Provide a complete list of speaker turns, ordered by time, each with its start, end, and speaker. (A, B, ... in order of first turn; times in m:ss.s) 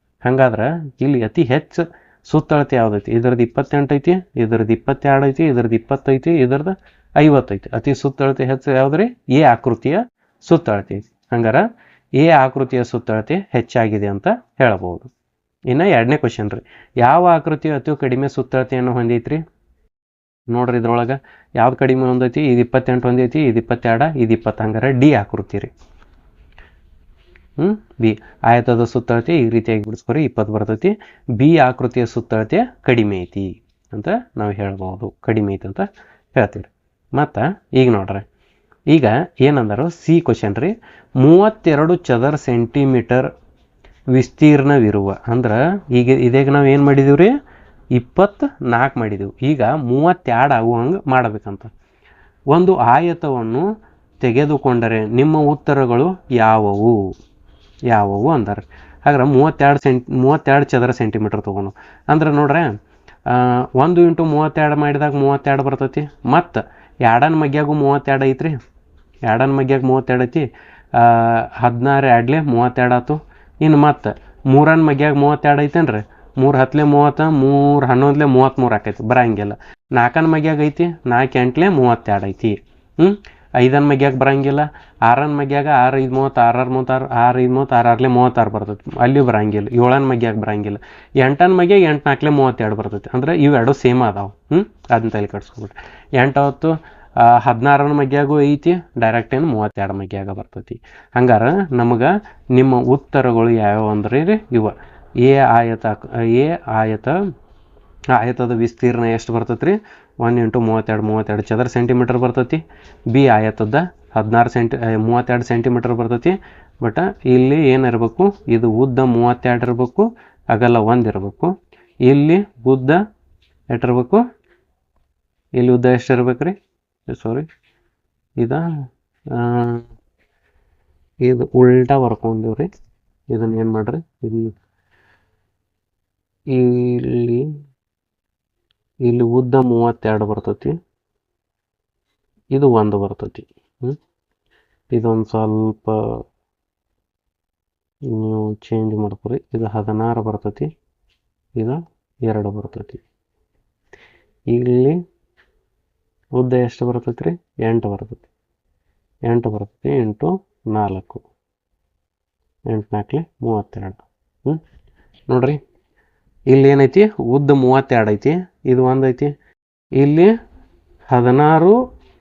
0:00.2-0:15.1 A
0:15.7-0:19.4 A
0:20.5-0:25.7 A
0:27.6-0:38.2 A
0:38.9-0:43.3 A
0:44.1-0:47.3 A
0:47.9-0:51.7 A
0:52.5-0:53.7 A
0:54.2-0:57.1 A
0:57.9-1:02.7 A
1:03.2-1:08.6 A
1:09.2-1:47.2 A
1:48.1-2:01.5 A
2:02.0-2:03.0 A
2:03.7-2:04.2 A
2:05.6-2:06.6 A
2:07.1-2:07.5 A
2:08.4-2:08.6 A
2:09.3-2:09.8 A
2:11.2-2:12.7 A
2:13.3-2:14.5 A
2:16.5-2:17.5 A
2:19.0-2:20.8 A
2:22.5-2:24.0 A
2:24.9-2:26.2 A
2:28.0-2:30.7 A
2:31.6-2:33.0 A
2:34.5-2:35.0 A
2:36.4-2:38.3 A
2:39.2-2:41.2 A
2:42.7-2:44.6 A
2:45.3-2:45.6 A
2:46.5-2:49.3 A
2:50.0-2:50.3 A
2:51.1-2:51.8 A